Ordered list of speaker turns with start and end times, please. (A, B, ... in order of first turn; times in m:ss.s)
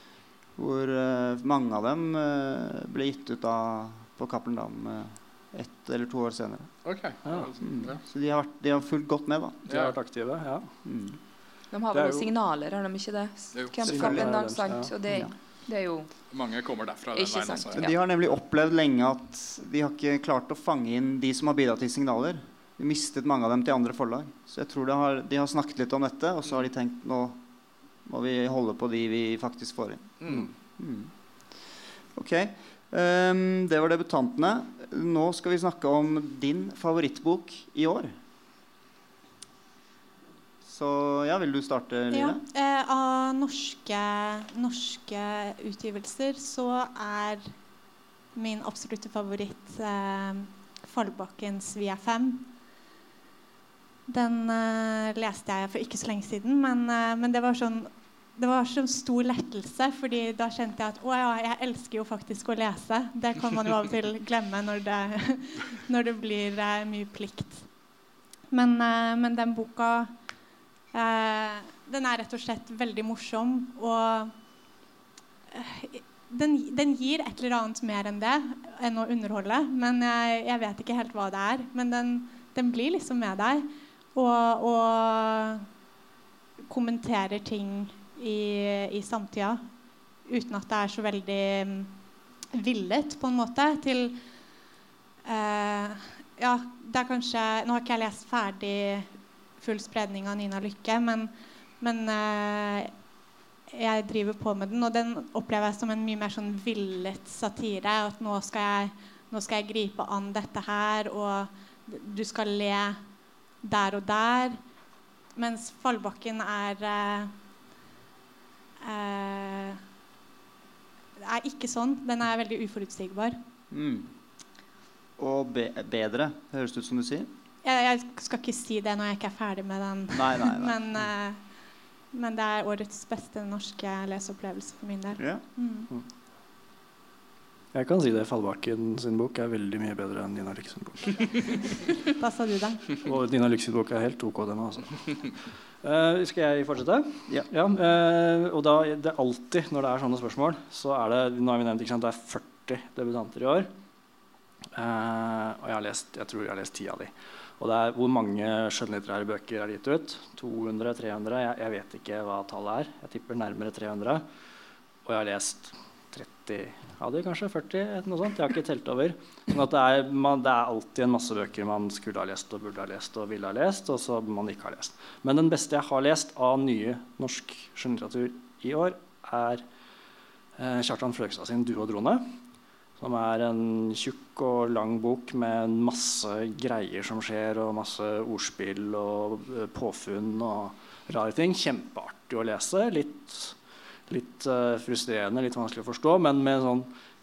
0:00.6-0:06.7 A
0:06.8-0:08.0 B
0:07.2-0:07.5 C
0:07.6-0:09.6 A
0:09.7-0:10.8 C
0:09.7-0:09.9 B
0:10.8-0:11.2 A
0:11.7-0:16.1 D
0:11.9-0:12.3 C
0:13.8-0:14.9 C
0:13.9-0:14.3 A
0:16.3-0:17.9 B
0:17.1-0:17.9 D
0:17.8-0:27.4 A
0:28.0-0:31.1 A
0:30.2-0:30.4 B
0:32.1-0:38.1 A
0:40.6-0:42.4 A
0:42.1-0:47.5 E
0:48.3-0:52.5 E
0:54.1-1:07.6 E
1:08.5-1:10.1 E
1:10.9-1:14.3 E
1:15.5-1:25.6 E
1:26.6-1:29.6 E
1:30.2-1:31.9 E
1:32.5-1:34.2 E
1:35.2-1:42.9 E
1:43.7-1:53.0 E
1:53.6-1:54.6 E
1:55.4-1:57.3 E
1:58.8-1:59.8 E
2:01.2-2:03.4 E
2:03.7-2:04.1 A
2:05.2-2:07.3 A
2:07.6-2:11.4 E
2:10.1-2:10.8 A
2:12.1-2:15.9 E
2:15.2-2:15.4 A
2:17.7-2:21.7 C
2:22.2-2:22.9 E
2:23.0-2:33.7 C
2:34.7-2:44.2 C
2:45.0-2:59.6 C
3:00.6-3:02.3 C
3:03.0-3:13.6 C
3:14.1-3:16.9 C